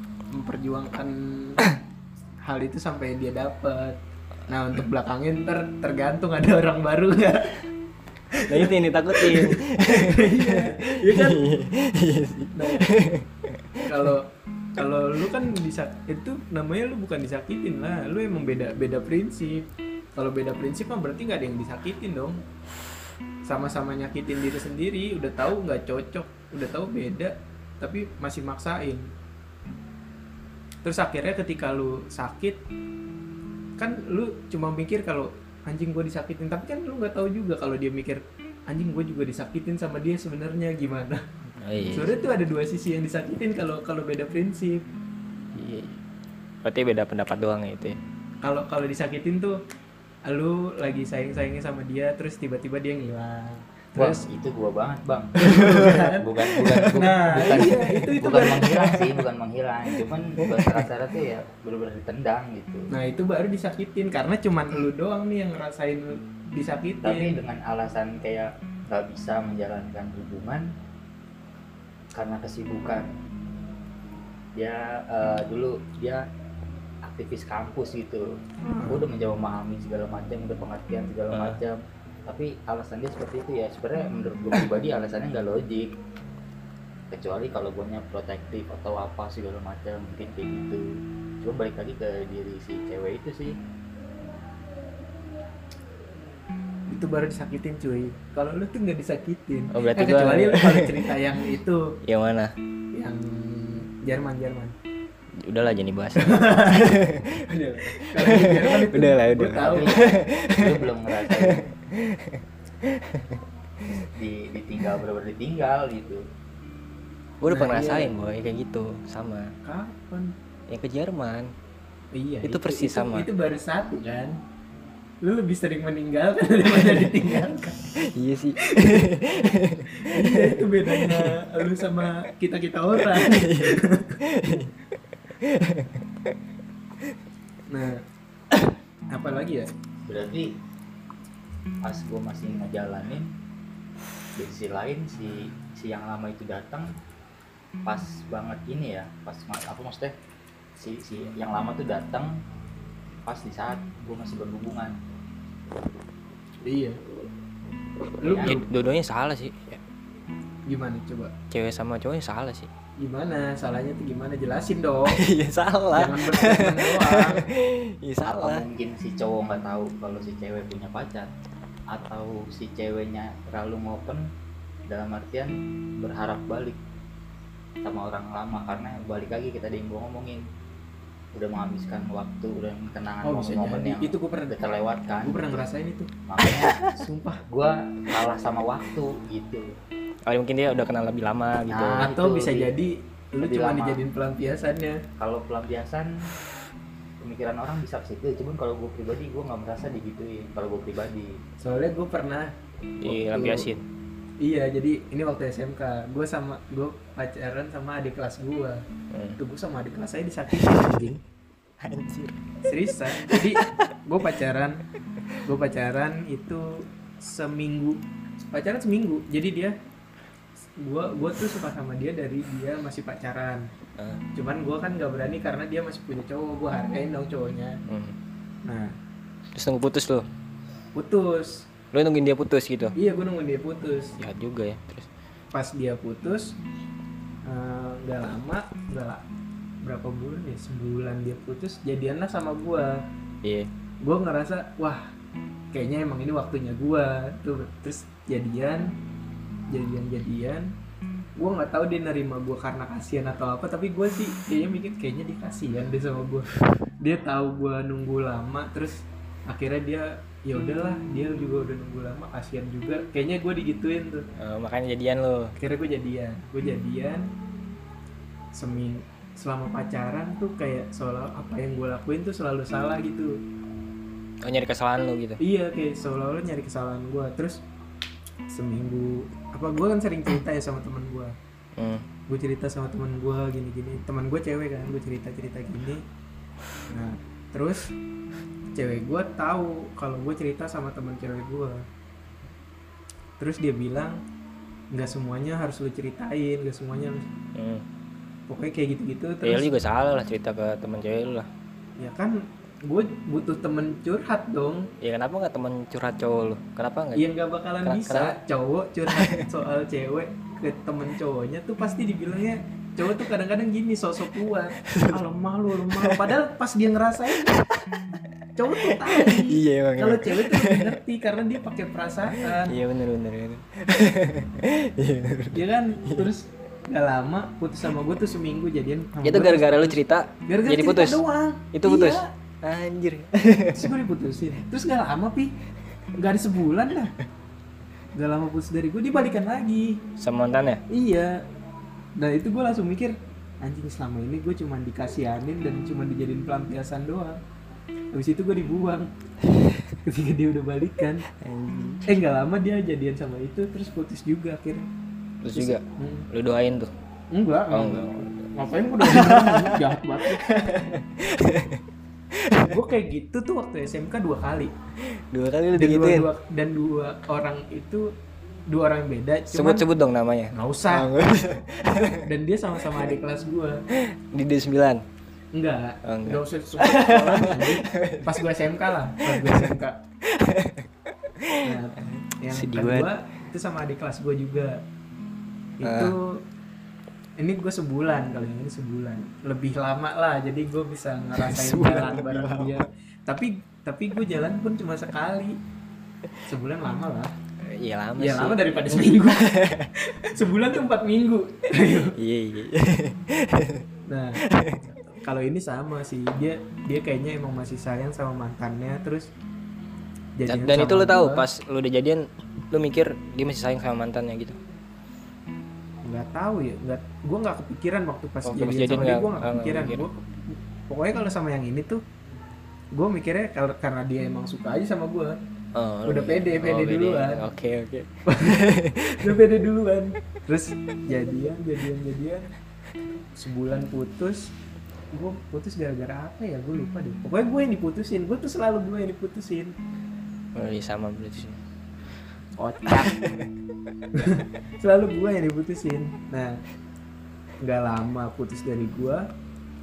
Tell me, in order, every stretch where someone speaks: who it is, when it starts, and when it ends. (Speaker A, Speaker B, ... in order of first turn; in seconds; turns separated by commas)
Speaker A: 0.3-1.6, Speaker A: 2.5-7.6, Speaker A: 8.3-11.4, Speaker B: 8.4-14.1, Speaker A: 12.5-12.9, Speaker A: 13.8-19.6, Speaker A: 20.2-22.4, Speaker A: 23.5-29.1, Speaker A: 30.8-32.6, Speaker A: 33.8-41.2, Speaker B: 41.6-42.2, Speaker A: 41.9-44.8, Speaker B: 45.5-46.0, Speaker B: 46.6-48.0, Speaker A: 48.4-49.6, Speaker A: 50.3-54.3, Speaker C: 54.0-62.9, Speaker A: 55.4-59.1, Speaker B: 56.6-56.9, Speaker B: 60.4-60.8, Speaker A: 62.9-67.4, Speaker C: 67.0-70.7, Speaker C: 72.2-73.1, Speaker C: 74.6-76.3, Speaker C: 77.0-78.3, Speaker A: 78.7-79.0, Speaker C: 78.9-85.9, Speaker B: 81.3-81.6, Speaker C: 87.1-90.9, Speaker C: 91.4-93.6, Speaker A: 96.9-101.9, Speaker B: 99.7-101.2, Speaker B: 102.1-102.5, Speaker A: 102.9-104.7, Speaker B: 105.4-114.1, Speaker A: 106.2-107.0, Speaker A: 107.5-110.0, Speaker C: 109.7-111.7, Speaker C: 114.2-116.2, Speaker B: 117.4-119.5, Speaker A: 117.5-118.1, Speaker A: 119.6-120.3, Speaker B: 120.7-121.5, Speaker A: 122.1-124.4, Speaker B: 122.4-123.3, Speaker A: 125.2-127.9, Speaker B: 128.0-131.4, Speaker A: 128.6-129.1, Speaker A: 130.0-134.7, Speaker B: 133.0-134.7, Speaker B: 135.3-136.3, Speaker A: 137.7-139.7, Speaker C: 140.1-140.5, Speaker C: 141.8-143.3, Speaker C: 144.4-146.9, Speaker C: 147.9-150.1, Speaker C: 150.8-152.3, Speaker C: 153.3-155.0, Speaker A: 156.7-157.0, Speaker A: 158.2-158.7, Speaker C: 158.2-158.6, Speaker B: 158.4-159.8, Speaker A: 160.7-161.3, Speaker B: 161.5-162.7, Speaker A: 163.0-165.2, Speaker B: 165.1-168.6, Speaker A: 165.9-167.5, Speaker C: 168.2-171.3, Speaker C: 171.9-174.3, Speaker C: 174.9-176.8, Speaker C: 177.8-180.4, Speaker C: 181.4-185.7, Speaker A: 183.2-184.6, Speaker A: 185.2-186.1, Speaker C: 186.3-186.9, Speaker B: 186.6-186.9, Speaker A: 186.9-187.4, Speaker C: 187.5-189.7, Speaker B: 190.3-192.1, Speaker C: 191.7-192.7, Speaker A: 192.0-195.0, Speaker C: 193.4-194.0, Speaker C: 195.2-196.3, Speaker C: 197.2-201.4, Speaker A: 201.6-202.5, Speaker B: 203.0-203.8, Speaker A: 203.0-203.7, Speaker A: 204.4-208.8, Speaker B: 209.1-209.4, Speaker A: 209.4-211.2, Speaker B: 210.5-211.2, Speaker B: 211.8-212.5, Speaker A: 212.7-214.8, Speaker B: 213.1-213.9, Speaker A: 215.4-219.8, Speaker A: 220.8-223.7, Speaker A: 224.4-227.8, Speaker B: 227.9-228.2, Speaker A: 228.7-228.9, Speaker B: 229.6-230.3, Speaker A: 231.0-231.7, Speaker B: 231.9-232.9, Speaker A: 233.0-234.2, Speaker B: 234.2-235.1, Speaker A: 235.5-236.6, Speaker A: 237.5-239.2, Speaker A: 239.8-243.0, Speaker B: 243.4-243.7, Speaker A: 244.0-245.0, Speaker A: 245.7-248.9, Speaker A: 249.7-250.7, Speaker A: 251.4-256.5, Speaker A: 257.0-264.3, Speaker B: 264.4-265.5, Speaker A: 265.6-267.3, Speaker A: 268.6-273.4, Speaker B: 274.4-275.4, Speaker A: 275.4-277.6, Speaker A: 278.5-281.4, Speaker B: 281.8-282.1, Speaker A: 282.3-286.0, Speaker A: 286.9-287.9, Speaker A: 288.8-291.8, Speaker A: 293.4-294.2, Speaker A: 294.9-297.3, Speaker B: 297.6-297.9, Speaker A: 298.5-299.7, Speaker B: 299.4-301.5, Speaker A: 302.0-304.9, Speaker B: 305.0-307.2, Speaker A: 307.1-317.6, Speaker B: 307.8-308.4, Speaker B: 309.1-309.4, Speaker B: 314.9-315.2, Speaker B: 315.9-316.3, Speaker A: 318.6-322.8, Speaker B: 318.8-321.0, Speaker B: 322.4-326.3, Speaker A: 325.5-332.3, Speaker B: 329.2-331.2, Speaker B: 331.7-333.9, Speaker A: 333.8-335.5, Speaker A: 336.2-337.1, Speaker A: 338.1-340.0, Speaker B: 340.2-340.8, Speaker A: 340.9-341.4, Speaker A: 342.2-347.4, Speaker A: 348.1-349.1, Speaker A: 350.0-351.3, Speaker B: 351.3-352.1, Speaker A: 352.1-354.9, Speaker B: 355.4-356.9, Speaker A: 355.5-356.3, Speaker A: 357.3-360.4, Speaker B: 357.7-362.8, Speaker A: 362.6-364.7, Speaker B: 365.1-366.3, Speaker A: 365.8-368.1, Speaker A: 368.7-369.8, Speaker B: 369.5-372.2, Speaker A: 370.5-371.1, Speaker A: 372.2-373.8, Speaker B: 374.0-375.0, Speaker A: 375.5-380.0, Speaker B: 376.1-378.5, Speaker B: 379.2-383.1, Speaker A: 381.6-384.8, Speaker A: 385.8-386.4, Speaker B: 385.8-386.1, Speaker A: 387.4-395.6, Speaker B: 391.4-392.9, Speaker A: 396.5-397.3, Speaker B: 397.6-399.9, Speaker A: 398.2-399.5, Speaker A: 400.0-402.1, Speaker B: 401.8-403.9, Speaker A: 404.1-404.4, Speaker B: 404.4-404.9, Speaker A: 405.2-409.3, Speaker A: 410.4-411.4, Speaker B: 410.5-414.6, Speaker A: 416.1-422.0, Speaker B: 418.4-420.1, Speaker A: 422.9-425.4, Speaker B: 425.8-429.5, Speaker A: 426.1-427.4, Speaker A: 428.3-432.5, Speaker A: 433.4-434.5, Speaker A: 435.1-439.8, Speaker B: 440.6-441.6, Speaker A: 442.6-443.1, Speaker B: 442.9-443.5, Speaker A: 444.1-446.6, Speaker A: 447.6-449.2